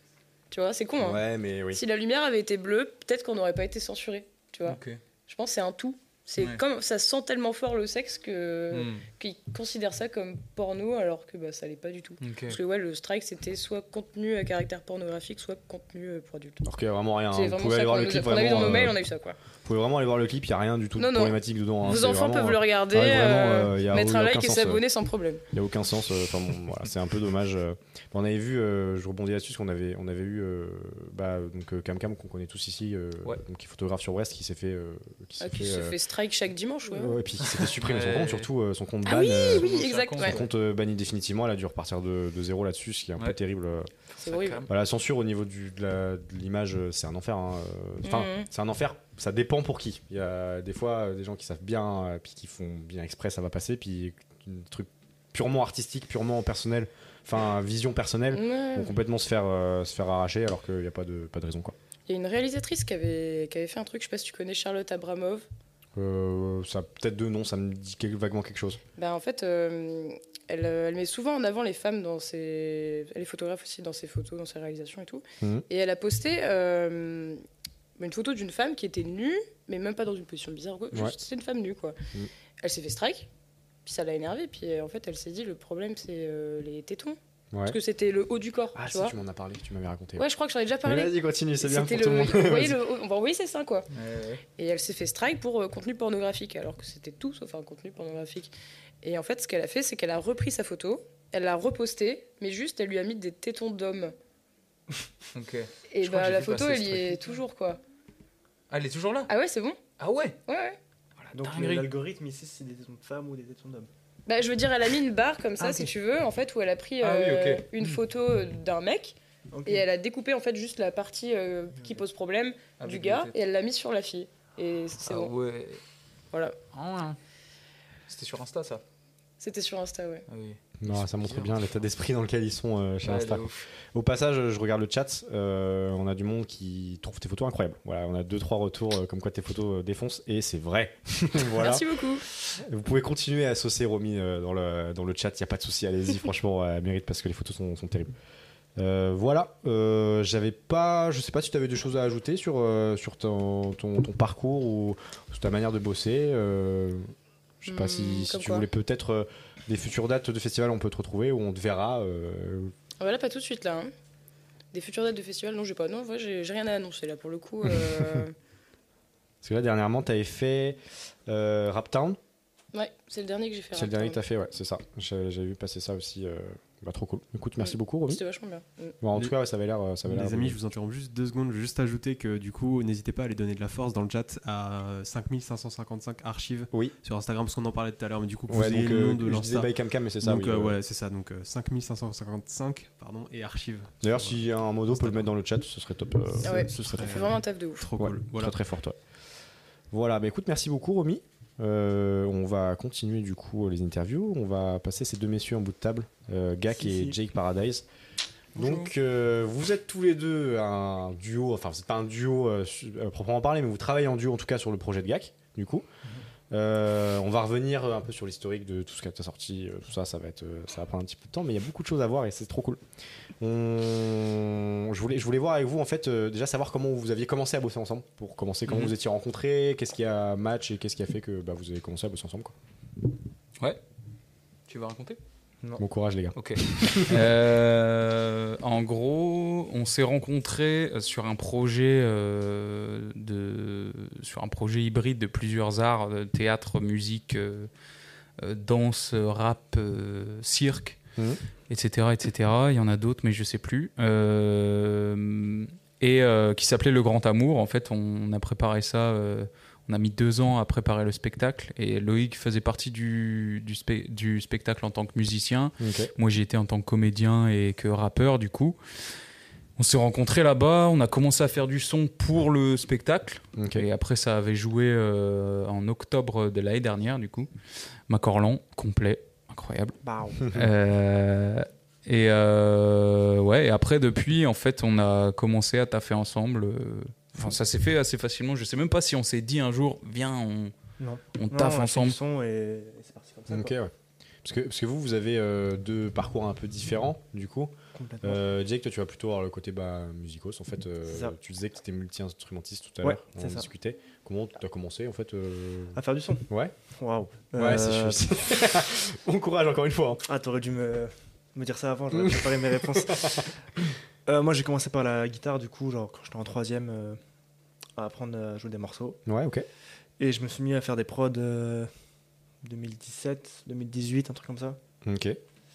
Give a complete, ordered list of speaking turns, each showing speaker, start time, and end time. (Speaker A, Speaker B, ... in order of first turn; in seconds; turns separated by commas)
Speaker A: 0.5-16.6, Speaker B: 1.0-1.8, Speaker C: 4.7-5.0, Speaker C: 8.7-9.1, Speaker C: 12.2-12.6, Speaker B: 16.6-19.0, Speaker A: 17.3-19.4, Speaker B: 19.6-24.8, Speaker A: 21.0-25.4, Speaker B: 25.5-36.0, Speaker A: 35.4-37.2, Speaker B: 36.9-43.9, Speaker C: 37.5-38.5, Speaker A: 39.0-40.4, Speaker C: 39.6-40.5, Speaker A: 44.2-44.6, Speaker C: 44.3-44.7, Speaker B: 44.6-61.8, Speaker A: 48.0-48.5, Speaker A: 58.3-58.9, Speaker A: 62.1-65.5, Speaker B: 66.0-68.8, Speaker A: 69.0-77.4, Speaker A: 78.0-82.0, Speaker A: 82.6-83.3, Speaker A: 83.9-89.2, Speaker B: 87.5-87.8, Speaker B: 88.8-90.3, Speaker A: 90.2-93.9, Speaker B: 90.8-92.8, Speaker C: 93.9-94.4, Speaker A: 94.6-98.5, Speaker A: 99.0-104.1, Speaker C: 105.3-107.4, Speaker A: 105.9-107.8, Speaker C: 108.7-109.3, Speaker A: 109.3-109.8, Speaker C: 110.0-110.4, Speaker A: 110.5-110.8, Speaker C: 111.2-111.9, Speaker D: 111.3-113.9, Speaker A: 114.3-125.3, Speaker C: 115.6-115.9, Speaker C: 117.0-118.0, Speaker D: 119.5-119.8, Speaker C: 122.8-123.3, Speaker C: 125.0-125.8, Speaker A: 126.3-126.6, Speaker C: 126.7-127.2, Speaker C: 128.1-128.8, Speaker A: 129.4-130.2, Speaker C: 130.3-131.6, Speaker B: 130.8-148.1, Speaker C: 133.0-133.7, Speaker A: 141.5-142.2, Speaker B: 148.8-157.1, Speaker B: 157.6-162.7, Speaker A: 157.7-158.7, Speaker A: 163.0-163.9, Speaker A: 164.7-168.3, Speaker B: 167.8-168.2, Speaker B: 169.4-172.2, Speaker A: 172.7-174.2, Speaker B: 173.7-178.2, Speaker A: 177.6-178.9, Speaker B: 179.0-180.6, Speaker E: 180.0-189.7, Speaker B: 188.5-190.8, Speaker E: 190.2-195.3, Speaker B: 194.0-197.3, Speaker E: 196.4-198.6, Speaker A: 196.4-197.8, Speaker B: 198.0-199.0, Speaker B: 199.9-207.9, Speaker D: 206.8-207.2, Speaker B: 208.6-215.9, Speaker B: 216.5-222.8, Speaker B: 223.4-232.5, Speaker C: 228.7-228.9, Speaker C: 234.7-235.2, Speaker B: 235.8-237.3, Speaker C: 236.3-247.7, Speaker C: 248.4-251.0, Speaker C: 251.7-268.8, Speaker B: 265.8-266.1, Speaker C: 269.8-277.5, Speaker B: 273.6-273.9, Speaker C: 278.1-290.7, Speaker D: 280.0-280.5, Speaker D: 291.0-293.7, Speaker C: 291.4-292.1, Speaker B: 293.5-293.9, Speaker B: 294.4-306.8, Speaker D: 297.9-298.4, Speaker D: 301.1-301.4, Speaker D: 303.0-303.6, Speaker D: 306.0-308.2, Speaker B: 307.5-310.2, Speaker D: 310.3-313.5, Speaker B: 312.1-313.5, Speaker D: 314.2-317.2, Speaker D: 318.0-319.2, Speaker B: 319.2-319.6, Speaker D: 320.2-321.9, Speaker D: 322.6-324.8, Speaker B: 325.0-325.4